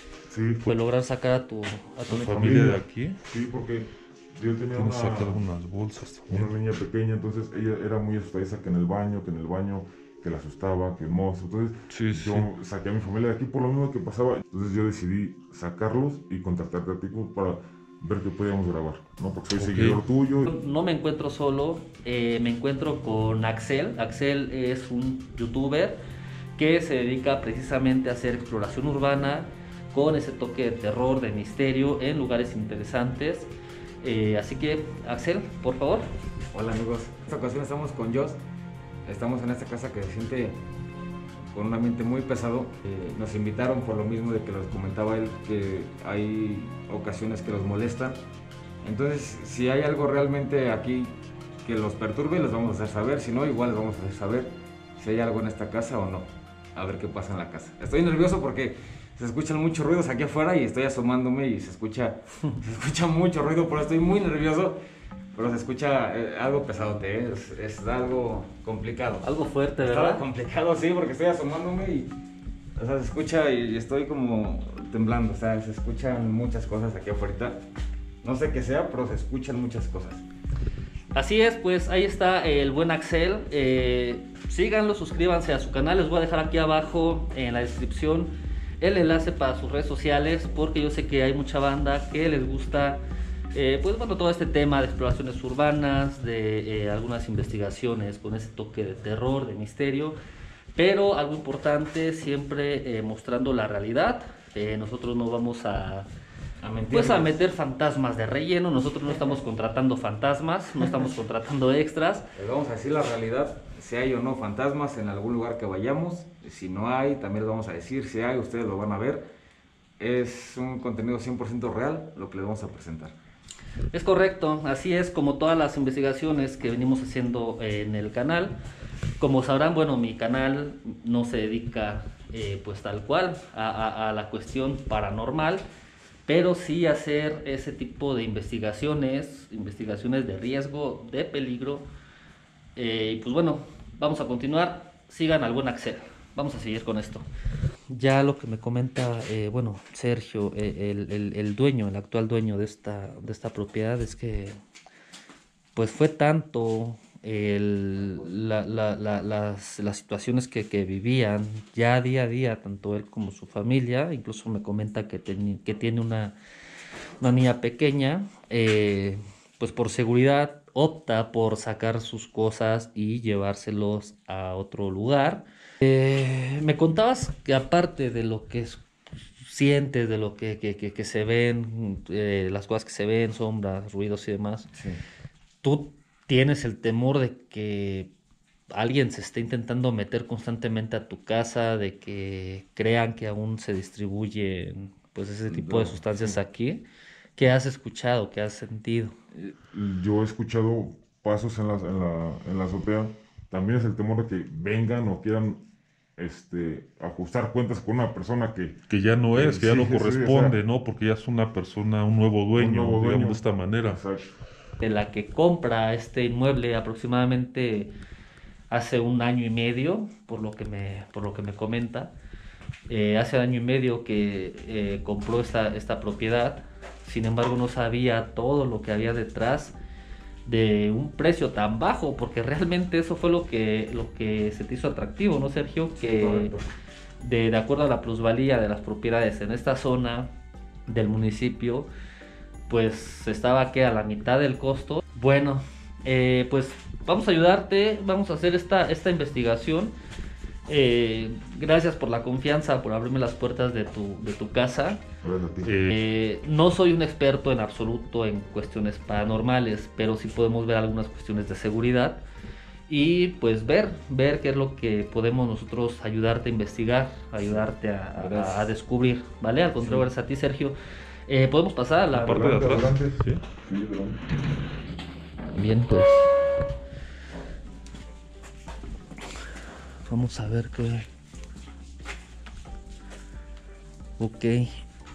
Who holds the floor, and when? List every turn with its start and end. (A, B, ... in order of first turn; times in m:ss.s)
0:00.3-0:00.7 A
0:00.7-0:02.7 B
0:02.1-0:03.2 C
0:02.2-0:05.5 A
0:04.7-0:06.5 C
0:06.3-0:20.5 A
0:11.9-0:12.5 C
0:19.6-0:20.0 C
0:20.4-0:26.0 B
0:26.6-0:33.5 B
0:34.0-0:36.1 B
0:36.5-0:38.4 D
0:39.0-0:40.6 D
0:41.5-0:48.2 D
0:48.8-1:04.8 D
1:05.3-1:09.3 D
1:09.2-1:10.3 B
1:09.8-1:12.1 D
1:12.8-1:17.6 D
1:18.2-1:20.2 D
1:21.1-1:40.2 B
1:40.8-1:46.1 B
1:46.6-1:47.3 D
1:46.9-1:52.2 B
1:52.4-1:59.3 D
2:00.0-2:03.2 D
2:03.9-2:08.6 B
2:09.2-2:15.6 B
2:16.3-2:21.9 B
2:22.8-2:27.3 B
2:27.9-2:34.6 B
2:35.8-2:46.4 B
2:47.2-2:58.8 B
2:59.4-3:04.7 B
3:04.7-3:05.0 D
3:05.6-3:08.1 B
3:08.7-3:16.8 B
3:15.5-3:16.0 D
3:17.4-3:19.2 B
3:19.7-3:25.6 A
3:26.2-3:28.8 A
3:28.9-3:34.0 C
3:29.3-3:30.6 A
3:32.6-3:34.3 A
3:34.8-3:37.9 B
3:38.7-3:42.1 B
3:42.9-3:49.8 B
3:50.4-3:56.5 B
3:56.2-3:56.6 D
3:57.2-4:00.3 B
4:00.9-4:01.9 B
4:02.7-4:10.0 B
4:10.7-4:15.0 B
4:15.2-4:15.8 A
4:15.6-4:16.0 C
4:15.9-4:22.2 B
4:22.9-4:30.8 B
4:28.2-4:28.7 D
4:31.3-4:33.0 B
4:32.2-4:34.2 A
4:32.2-4:33.4 C
4:35.5-4:36.6 B
4:40.1-4:41.1 B
4:44.2-4:44.7 B